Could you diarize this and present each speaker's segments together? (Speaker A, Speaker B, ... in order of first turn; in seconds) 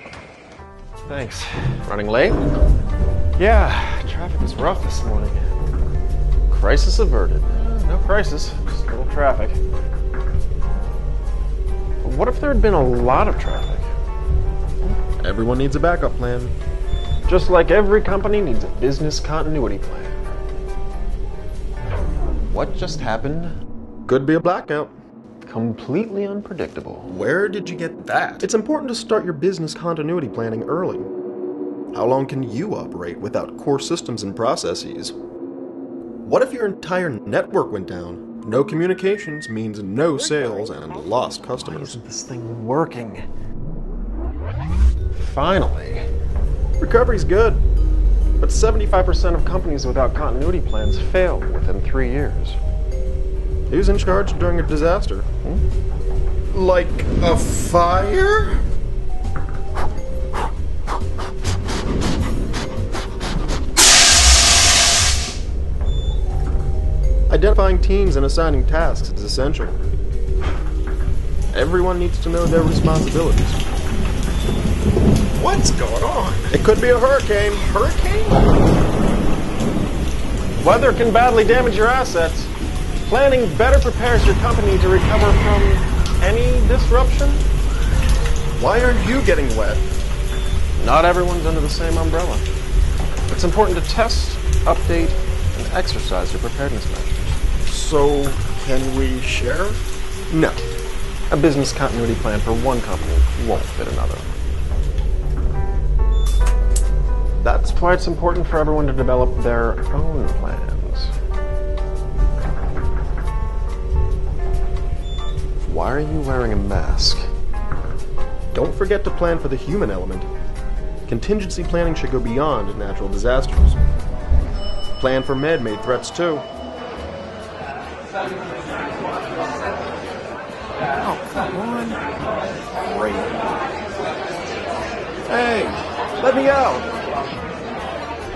Speaker A: 1.1-2.4, 3.4-5.6, 6.5-9.6, 12.0-13.9, 17.2-20.2, 22.5-23.5, 25.4-27.1, 40.6-43.2, 45.1-46.0, 48.4-52.6, 80.6-82.5, 83.0-87.4, 90.8-92.5, 93.3-97.4, 101.3-104.3, 107.6-111.1, 115.6-117.3
Speaker B: 15.2-16.5, 24.1-24.9, 27.1-31.1, 31.9-35.1, 36.2-42.0, 46.8-47.6, 53.7-55.3, 56.5-58.6, 67.3-69.8, 71.5-73.6, 75.3-78.4, 88.5-89.8, 97.6-100.6, 107.4-107.8, 118.5-120.3, 121.1-123.8, 125.0-126.5, 131.0-132.0, 132.8-133.4, 135.3-136.9